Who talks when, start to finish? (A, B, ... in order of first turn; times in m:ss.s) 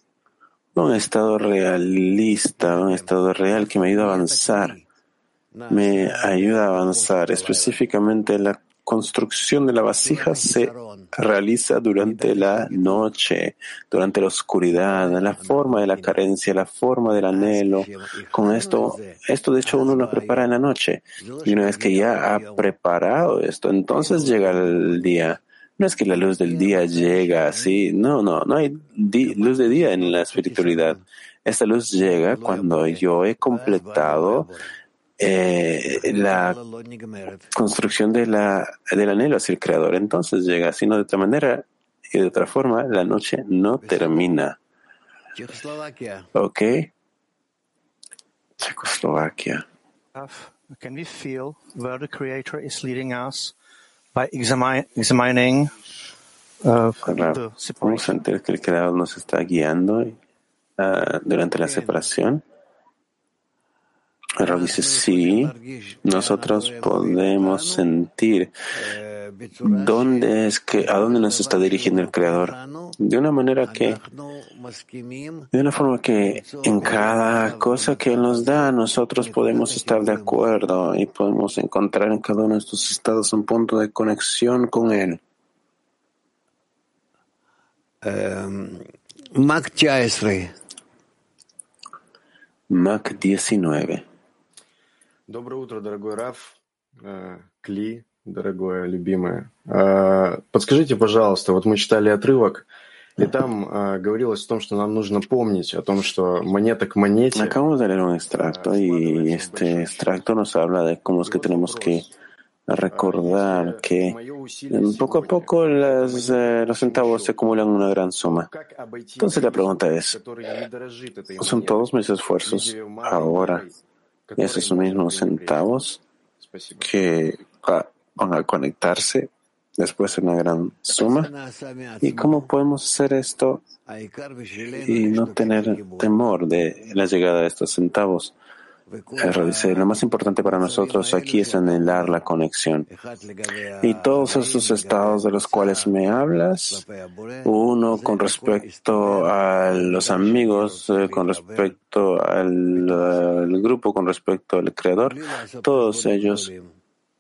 0:00.8-0:04.8 A
0:05.7-0:34.5 A
0:35.2-0:36.6 A
0:37.5-0:44.6 A
0:46.4-0:46.9 A
0:48.6-0:49.6 A
0:50.1-0:53.5 B
0:54.1-0:55.7 B
0:56.6-0:58.2 B
0:57.0-1:00.2 A
1:00.8-1:02.4 A
1:04.4-1:08.5 A
1:09.6-1:14.0 A
1:15.5-1:25.2 A
1:32.7-1:34.0 A
1:35.3-1:42.7 C
1:43.2-1:47.6 C
1:47.3-1:52.1 A
1:48.3-1:50.2 C
1:51.2-1:52.1 C
1:52.7-1:54.2 A
1:52.9-1:57.4 C
1:54.7-1:58.5 A
1:58.3-2:01.9 C
1:59.2-2:00.2 A
2:01.4-2:03.6 A
2:02.4-2:03.7 C
2:04.3-2:05.6 C
2:04.4-2:06.0 A
2:06.4-2:07.0 C
2:06.8-2:11.3 A
2:12.0-2:13.6 A
2:14.8-2:18.4 A
2:19.2-2:22.9 A
2:23.8-2:26.8 A
2:27.4-2:36.5 A